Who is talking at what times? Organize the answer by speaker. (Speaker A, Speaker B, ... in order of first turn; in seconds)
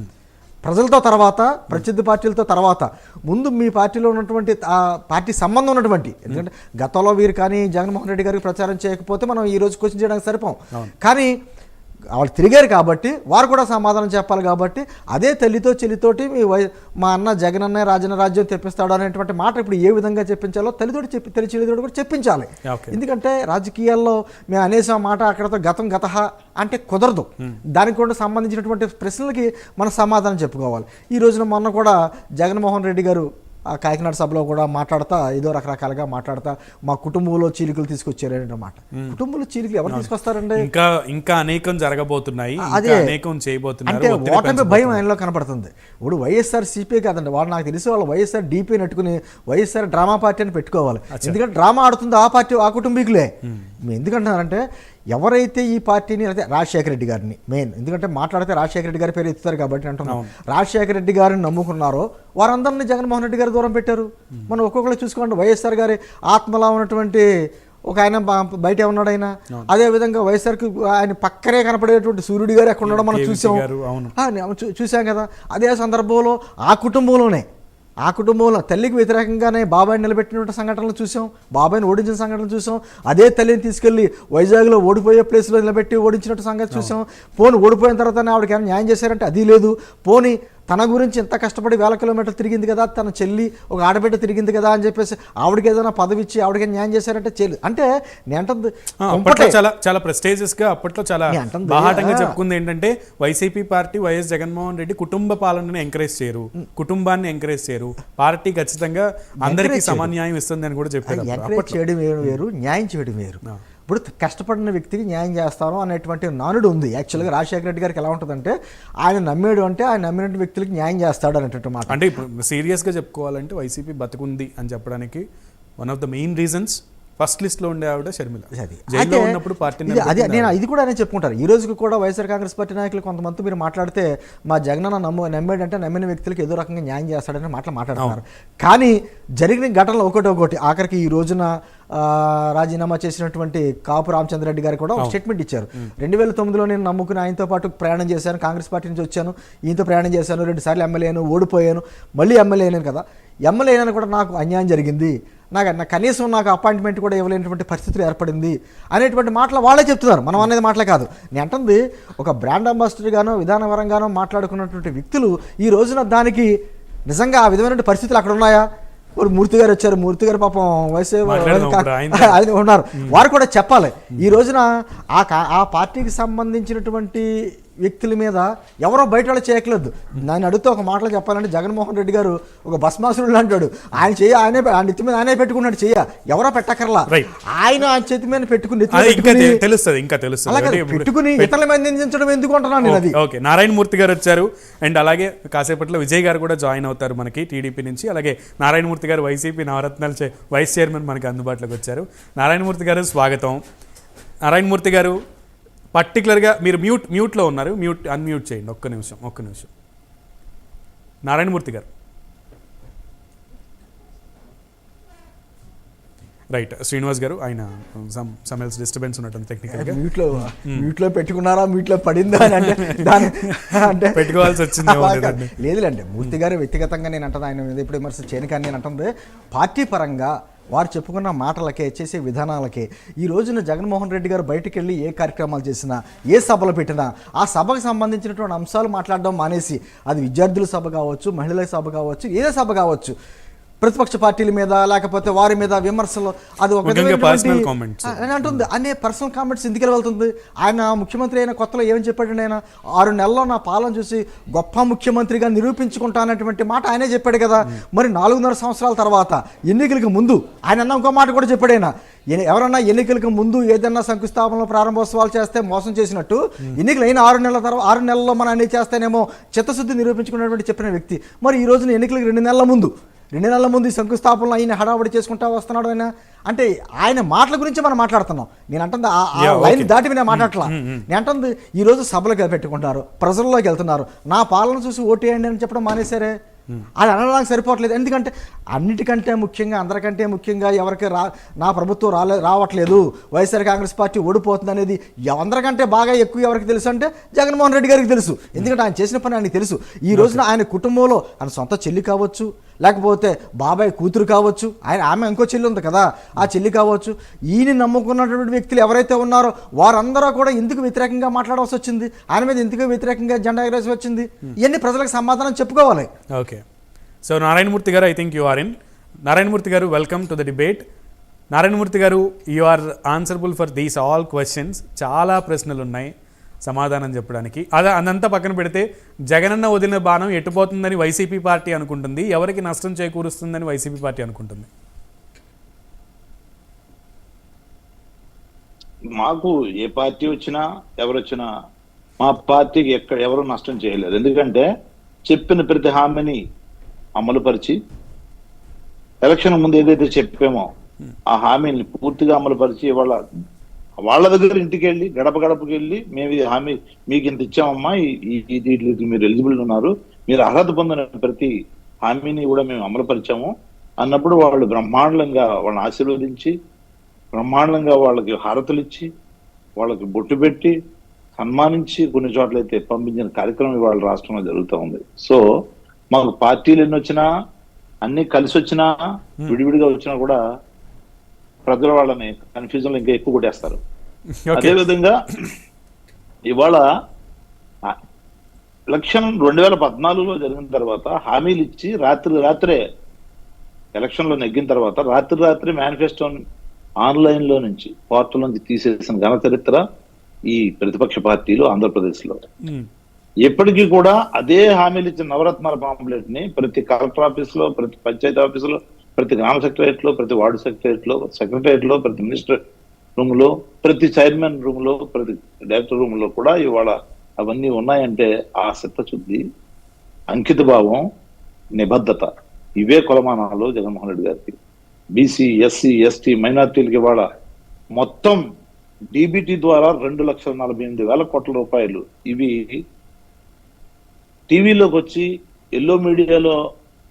Speaker A: 0.6-11.3, 12.1-33.2, 33.8-40.7, 42.6-43.1, 43.9-53.3, 53.9-54.6, 55.1-67.2, 67.9-73.6, 74.2-77.4, 78.0-99.6, 101.3-102.3, 109.4-110.1, 111.1-122.0, 128.5-166.5, 167.1-168.7, 169.2-177.3, 177.8-189.6, 190.5-193.2, 219.7-243.1, 243.8-286.3, 287.0-316.1
Speaker B: 22.6-23.0, 39.9-45.0, 72.8-74.1, 99.0-112.4, 121.9-125.2, 125.8-130.5, 171.2-172.4, 172.9-173.2, 188.9-191.5, 192.8-203.6, 204.4-205.2, 205.9-209.7, 211.2-211.9, 216.5-220.9, 222.4-225.5, 246.8-248.6, 279.4-281.1, 300.1-300.4, 316.3-316.6, 317.2-318.7, 319.2-320.8, 321.5-326.1, 326.7-334.7, 384.3-384.9
Speaker C: 339.2-341.5, 342.2-344.6, 345.3-346.4, 347.2-347.8, 349.2-350.7, 351.3-353.2, 354.0-361.5, 362.1-366.5, 367.3-369.1, 369.8-370.7, 371.4-375.4, 376.1-377.3, 378.1-378.9, 379.5-380.4, 381.7-383.8, 384.6-385.1, 386.5-386.8, 388.9-392.8, 394.0-396.4, 397.0-399.8, 400.5-402.4, 403.4-412.6, 413.2-419.4, 420.3-421.0, 421.8-422.3, 422.8-424.6, 425.2-427.2, 427.9-428.4, 429.1-432.7, 434.5-435.2, 435.8-436.6